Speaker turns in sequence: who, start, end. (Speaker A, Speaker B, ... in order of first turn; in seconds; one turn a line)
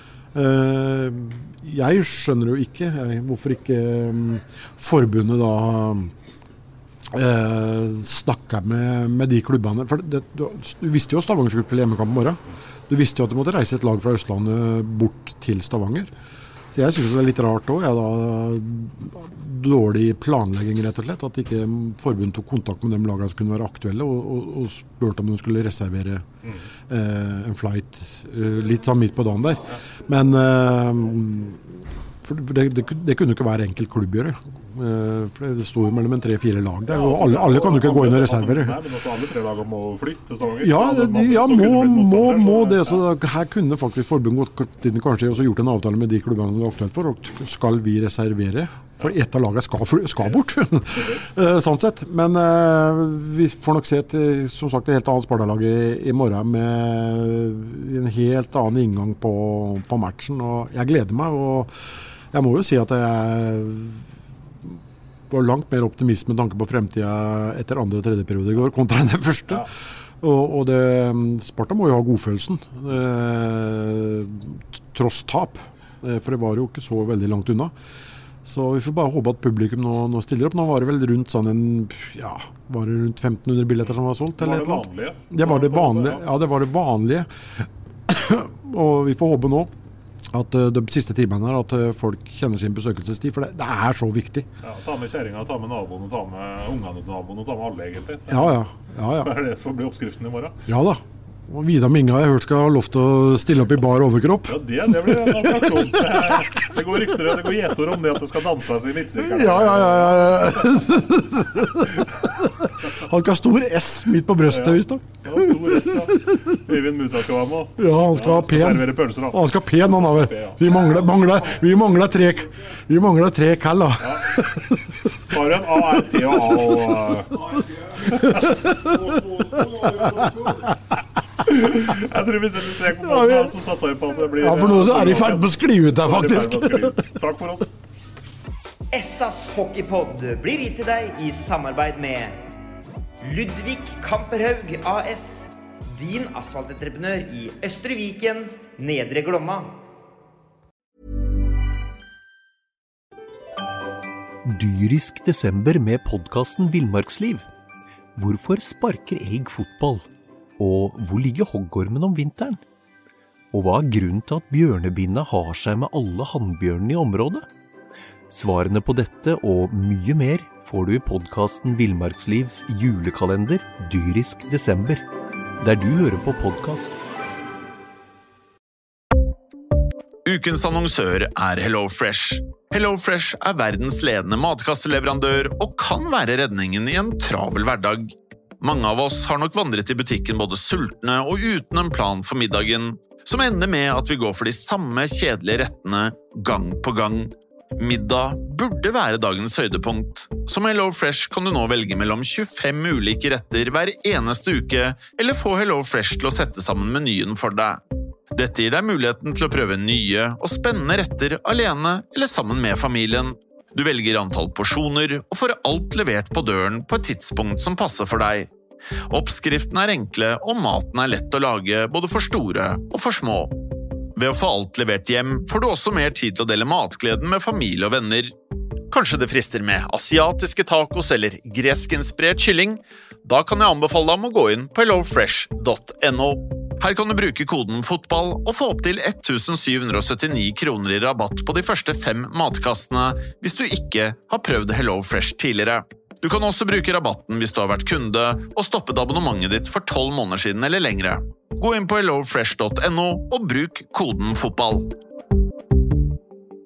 Speaker A: 0.3-6.1
Speaker A: 7.1-16.1
Speaker A: 16.7-26.3
Speaker A: 26.9-38.8
Speaker B: 36.9-43.0
Speaker A: 40.6-64.0
Speaker B: 50.2-51.3
Speaker A: 65.3-77.7
Speaker A: 78.4-89.7
Speaker B: 84.4-86.2
Speaker A: 90.3-94.5
Speaker B: 94.6-98.6
Speaker A: 98.3-99.4
Speaker B: 99.2-100.6
Speaker A: 100.7-107.1
Speaker B: 104.5-110.7
Speaker A: 109.2-116.5
Speaker B: 114.5-120.8
Speaker A: 117.8-125.3
Speaker B: 124.0-124.4
Speaker B: 125.3-127.4
Speaker A: 126.0-126.9
Speaker A: 127.5-130.8
Speaker B: 128.1-128.6
Speaker B: 129.1-130.4
Speaker B: 131.5-137.7
Speaker A: 132.8-133.6
Speaker A: 134.2-137.1
Speaker C: 138.9-142.4
Speaker C: 143.2-149.8
Speaker D: 154.4-157.5
Speaker D: 158.2-160.1
Speaker D: 160.6-162.6
Speaker D: 163.5-167.5
Speaker D: 168.3-175.0
Speaker D: 175.6-177.0
Speaker E: 180.2-207.8
Speaker E: 208.3-218.5
Speaker E: 219.1-223.5
Speaker E: 224.2-228.3
Speaker E: 228.9-254.9